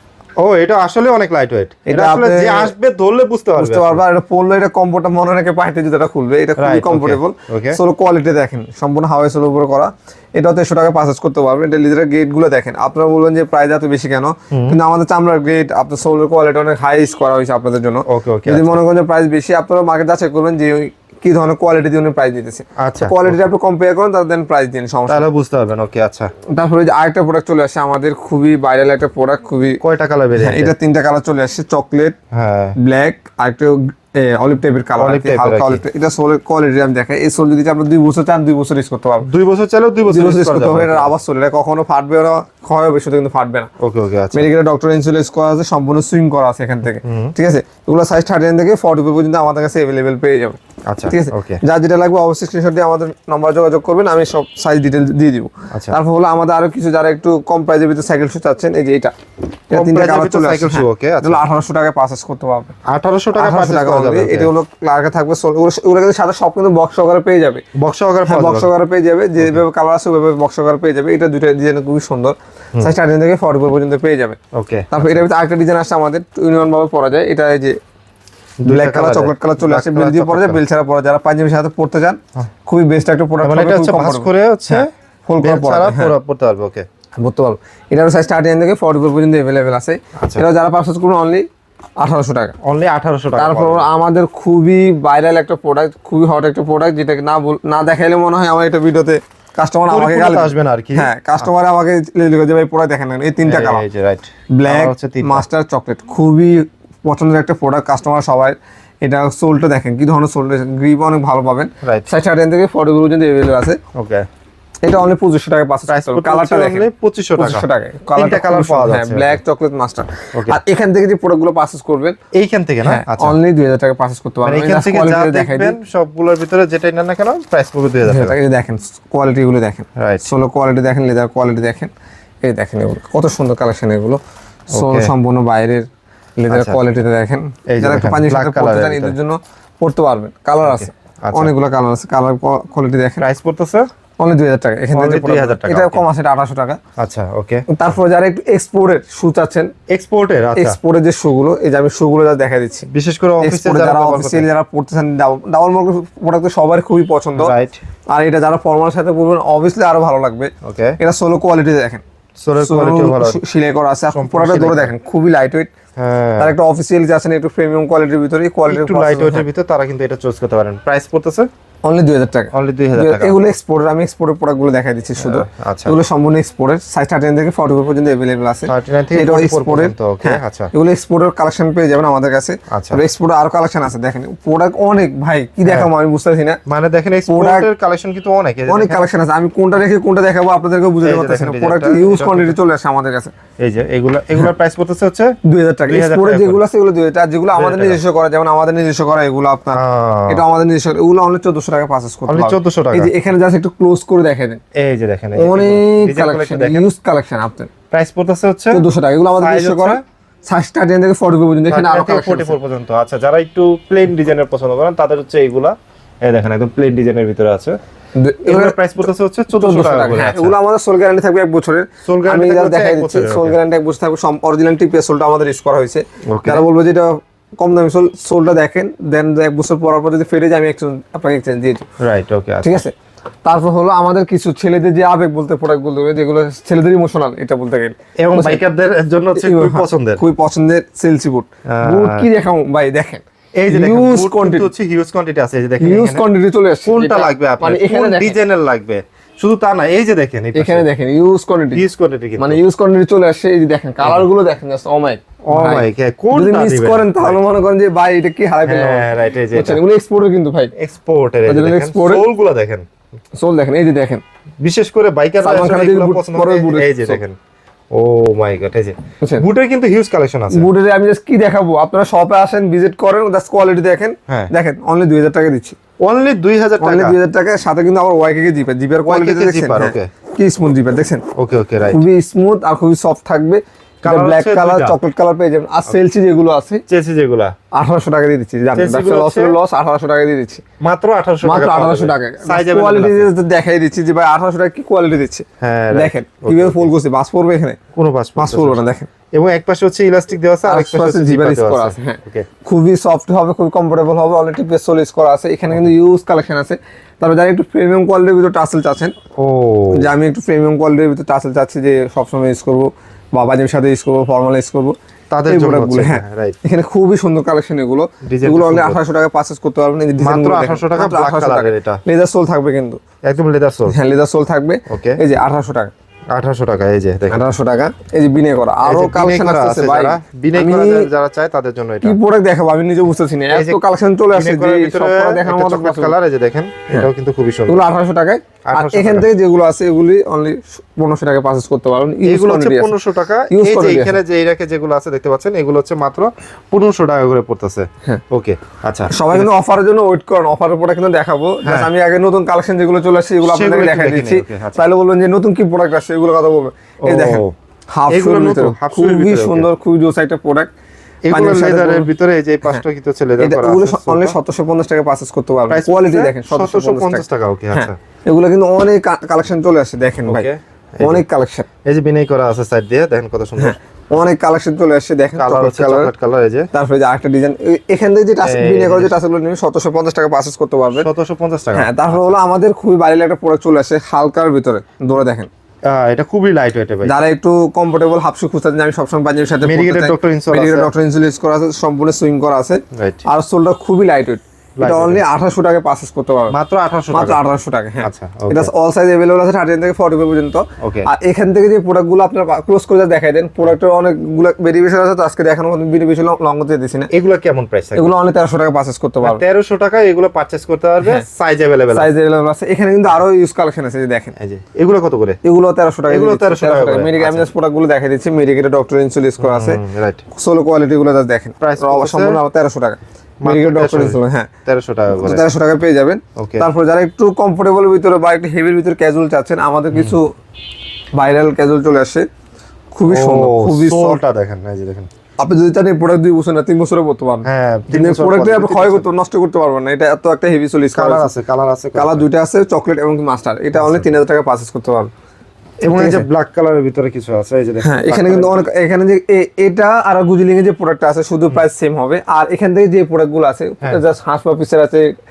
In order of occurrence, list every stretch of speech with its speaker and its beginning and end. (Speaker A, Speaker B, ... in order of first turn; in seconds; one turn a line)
Speaker A: 0.4-4.0
Speaker B: 1.9-2.7
Speaker B: 3.6-25.3
Speaker A: 6.6-7.8
Speaker A: 14.5-14.8
Speaker A: 18.1-18.8
Speaker A: 22.8-23.4
Speaker A: 25.1-26.3
Speaker B: 26.5-29.8
Speaker A: 29.8-30.7
Speaker B: 30.4-32.2
Speaker A: 32.3-32.8
Speaker B: 32.8-39.3
Speaker A: 35.0-35.8
Speaker A: 39.2-41.1
Speaker B: 40.1-43.7
Speaker A: 43.8-44.5
Speaker B: 44.3-50.6
Speaker A: 47.0-47.3
Speaker A: 50.9-51.6
Speaker B: 51.1-59.1
Speaker A: 55.7-56.0
Speaker B: 59.7-62.7
Speaker A: 59.7-61.4
Speaker A: 62.9-64.5
Speaker B: 63.4-67.6
Speaker A: 67.8-68.7
Speaker B: 68.3-74.4
Speaker A: 74.5-75.2
Speaker B: 74.9-77.8
Speaker A: 78.6-80.6
Speaker B: 78.7-86.1
Speaker A: 83.4-84.9
Speaker A: 85.4-86.8
Speaker B: 87.2-91.5
Speaker A: 90.2-90.5
Speaker B: 92.0-92.5
Speaker A: 92.6-93.9
Speaker B: 93.4-103.8
Speaker A: 99.9-101.5
Speaker A: 103.4-105.5
Speaker B: 104.5-113.8
Speaker A: 111.8-112.1
Speaker A: 114.0-114.3
Speaker B: 114.9-116.9
Speaker A: 115.9-119.4
Speaker B: 117.4-122.2
Speaker A: 122.3-123.4
Speaker B: 122.8-125.8
Speaker A: 124.4-128.4
Speaker B: 128.1-131.9
Speaker A: 130.0-130.3
Speaker B: 132.4-134.2
Speaker B: 134.7-135.9
Speaker A: 134.7-135.1
Speaker B: 136.4-143.2
Speaker A: 136.5-136.8
Speaker A: 137.7-139.2
Speaker A: 140.6-141.5
Speaker A: 143.2-143.9
Speaker B: 144.2-146.8
Speaker A: 144.9-146.0
Speaker A: 147.0-147.7
Speaker B: 147.7-149.7
Speaker A: 149.9-150.8
Speaker B: 150.6-152.9
Speaker A: 152.9-154.5
Speaker B: 153.4-157.5
Speaker A: 157.4-157.8
Speaker B: 158.1-162.0
Speaker A: 160.6-161.0
Speaker A: 162.4-163.4
Speaker B: 162.6-165.7
Speaker A: 164.1-164.9
Speaker A: 166.0-166.6
Speaker B: 166.4-169.4
Speaker A: 168.7-171.5
Speaker B: 171.8-186.6
Speaker A: 172.5-173.5
Speaker A: 175.2-176.0
Speaker A: 178.7-180.7
Speaker A: 182.7-183.0
Speaker A: 185.6-185.9
Speaker A: 186.7-189.1
Speaker B: 187.3-187.7
Speaker B: 188.7-193.3
Speaker A: 191.0-192.6
Speaker A: 193.6-195.3
Speaker B: 195.4-204.6
Speaker A: 195.8-196.6
Speaker A: 197.5-198.0
Speaker A: 199.7-200.4
Speaker A: 202.3-203.1
Speaker A: 204.8-206.9
Speaker B: 205.4-207.7
Speaker A: 207.9-208.8
Speaker B: 208.7-212.6
Speaker A: 209.4-210.0
Speaker A: 211.7-217.8
Speaker B: 218.2-231.9
Speaker A: 218.4-220.6
Speaker A: 222.1-223.6
Speaker A: 226.3-226.7
Speaker A: 232.0-232.8
Speaker B: 232.6-232.9
Speaker B: 233.4-238.6
Speaker A: 238.2-240.2
Speaker B: 239.3-244.7
Speaker A: 241.7-242.3
Speaker A: 243.6-246.2
Speaker B: 245.8-248.4
Speaker A: 246.9-250.9
Speaker B: 250.6-251.8
Speaker A: 251.7-252.6
Speaker B: 252.4-260.7
Speaker A: 255.5-257.4
Speaker A: 258.6-259.8
Speaker A: 260.8-262.9
Speaker B: 261.5-262.2
Speaker B: 263.4-264.2
Speaker A: 264.6-267.4
Speaker B: 265.4-267.2
Speaker A: 267.9-270.7
Speaker B: 270.5-275.8
Speaker A: 276.0-277.2
Speaker B: 276.8-281.2
Speaker A: 279.0-280.1
Speaker A: 281.4-282.0
Speaker B: 281.9-286.8
Speaker A: 284.0-285.0
Speaker A: 286.9-287.5
Speaker B: 287.8-290.6
Speaker A: 288.8-289.6
Speaker A: 290.8-293.3
Speaker B: 291.4-297.8
Speaker A: 295.6-296.9
Speaker A: 298.0-302.5
Speaker B: 298.4-299.1
Speaker B: 300.7-309.1
Speaker A: 309.4-310.1
Speaker B: 309.9-315.0
Speaker A: 315.3-316.6
Speaker B: 315.5-323.0
Speaker A: 318.3-319.0
Speaker A: 320.2-322.0
Speaker A: 323.2-323.9
Speaker B: 323.9-325.9
Speaker A: 324.9-325.2
Speaker A: 326.3-327.5
Speaker B: 327.3-331.1
Speaker A: 328.9-332.2
Speaker B: 332.0-336.1
Speaker A: 333.5-333.8
Speaker A: 334.3-337.9
Speaker B: 337.7-342.9
Speaker A: 338.7-339.3
Speaker A: 342.2-349.5
Speaker B: 343.5-344.2
Speaker B: 349.1-360.7
Speaker A: 351.6-351.9
Speaker A: 353.4-354.8
Speaker A: 357.0-357.5
Speaker A: 358.1-359.7
Speaker A: 361.3-364.4
Speaker B: 361.3-362.1
Speaker B: 363.4-370.5
Speaker A: 365.7-367.9
Speaker A: 370.3-371.2
Speaker B: 371.0-371.7
Speaker A: 371.9-373.8
Speaker B: 373.6-376.1
Speaker A: 375.4-376.7
Speaker B: 376.7-381.1
Speaker A: 378.4-379.1
Speaker A: 380.9-382.4
Speaker B: 381.8-385.5
Speaker A: 385.9-387.1
Speaker B: 387.1-396.5
Speaker A: 389.6-390.9
Speaker A: 392.9-393.2
Speaker A: 394.8-395.2
Speaker A: 396.5-397.4
Speaker B: 397.1-407.1
Speaker A: 398.0-398.7
Speaker A: 400.8-401.1
Speaker A: 407.1-408.1
Speaker B: 407.9-409.4
Speaker A: 409.2-412.1
Speaker B: 411.9-414.3
Speaker A: 414.4-415.4
Speaker B: 415.4-419.8
Speaker A: 416.1-417.5
Speaker A: 419.4-420.2
Speaker B: 420.3-424.5
Speaker A: 421.6-422.4
Speaker A: 423.4-425.5
Speaker B: 425.2-430.3
Speaker A: 426.4-426.7
Speaker B: 431.2-432.3
Speaker B: 432.9-434.2
Speaker A: 433.1-435.1
Speaker B: 435.4-441.3
Speaker A: 437.4-439.1
Speaker A: 440.9-442.3
Speaker B: 442.0-445.1
Speaker A: 443.7-444.2
Speaker A: 445.8-448.7
Speaker B: 445.9-446.3
Speaker B: 447.8-455.1